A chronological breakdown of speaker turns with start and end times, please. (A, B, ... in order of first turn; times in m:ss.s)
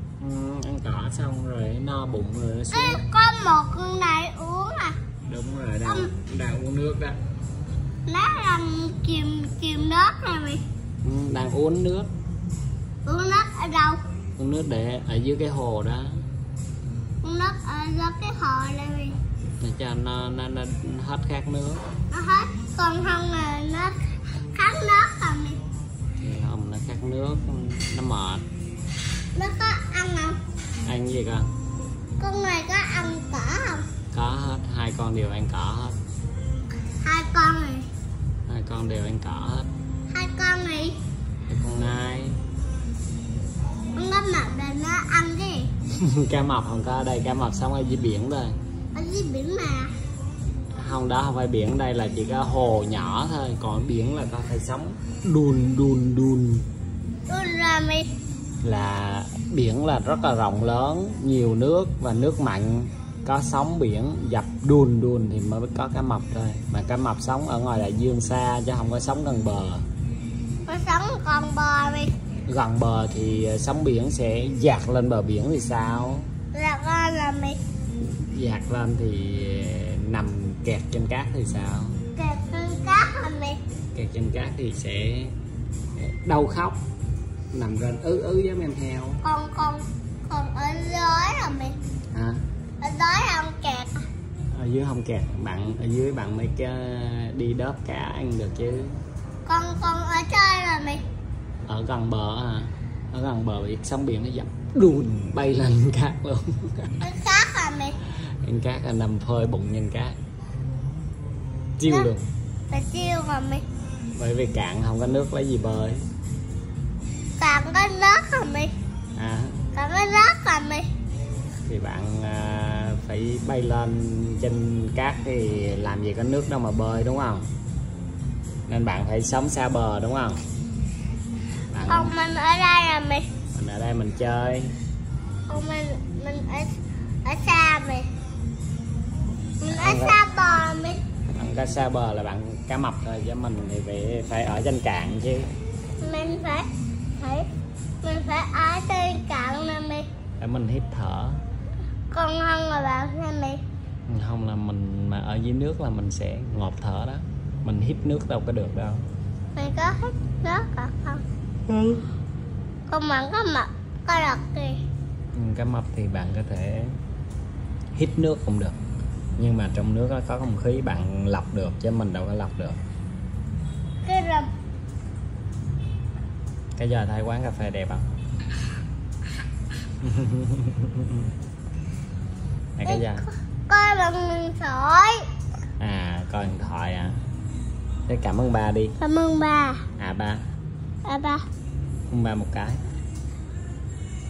0:00.2-0:03.0 A
0:02.7-0:05.0 B
0:05.3-0:07.2 A
0:05.9-0:06.1 B
0:08.1-0:10.6 B
0:11.0-0:12.1 A
0:13.1-0:14.0 B
0:14.4-0:16.2 A
0:17.2-0:19.2 B
0:19.6-0:21.9 A
0:22.1-0:24.0 B
0:24.5-0:25.6 B
0:26.2-0:28.4 A
0:29.4-0:30.4 B
0:30.8-0:31.5 A
0:32.2-0:33.9 B
0:34.1-0:36.0 A
0:37.0-0:37.9 B
0:38.5-0:39.7 A
0:40.1-0:41.0 B
0:41.5-0:42.4 A
0:44.0-0:45.7 B
0:45.9-0:48.5 A
0:48.9-0:49.9 B
0:50.7-0:56.6 A
0:57.3-0:58.1 B
0:58.6-1:09.8 A
1:10.7-1:12.1 B
1:12.5-1:16.3 A
1:16.5-1:17.6 B
1:18.0-1:22.0 A
1:22.2-1:23.6 B
1:23.9-1:25.3 A
1:26.0-1:26.8 A
1:27.5-1:29.2 A
1:29.2-1:31.8 B
1:32.1-1:32.4 A
1:32.8-1:34.0 B
1:34.5-1:38.9 A
1:39.5-1:41.0 B
1:41.7-1:47.0 A
1:47.0-1:48.0 B
1:48.4-1:50.2 A
1:51.8-1:52.3 A
1:52.7-1:53.6 B
1:54.2-1:56.0 A
1:57.4-1:58.7 B
1:59.2-1:59.6 A
1:59.8-2:00.9 B
2:01.6-2:07.4 A
2:08.7-2:10.4 A
2:11.7-2:12.1 A
2:11.9-2:13.3 B
2:13.5-2:14.7 A
2:15.5-2:16.7 B
2:17.2-2:18.1 B
2:19.6-2:21.0 B
2:19.7-2:20.2 A
2:21.4-2:25.5 A
2:26.0-2:27.5 B
2:28.0-2:30.1 B
2:30.4-2:31.4 A
2:32.1-2:33.6 B
2:34.1-2:39.0 A
2:39.6-2:41.2 B
2:42.9-2:44.8 B
2:45.3-2:47.0 A
2:48.0-2:48.8 A
2:49.4-2:52.8 A
2:54.0-2:54.5 B
2:56.8-2:58.0 A
3:00.0-3:01.3 A
3:02.8-3:03.2 A
3:02.9-3:05.2 B
3:05.8-3:07.2 A
3:08.1-3:09.0 A
3:09.0-3:09.8 B
3:10.0-3:10.4 A
3:11.1-3:11.4 B
3:12.1-3:12.8 A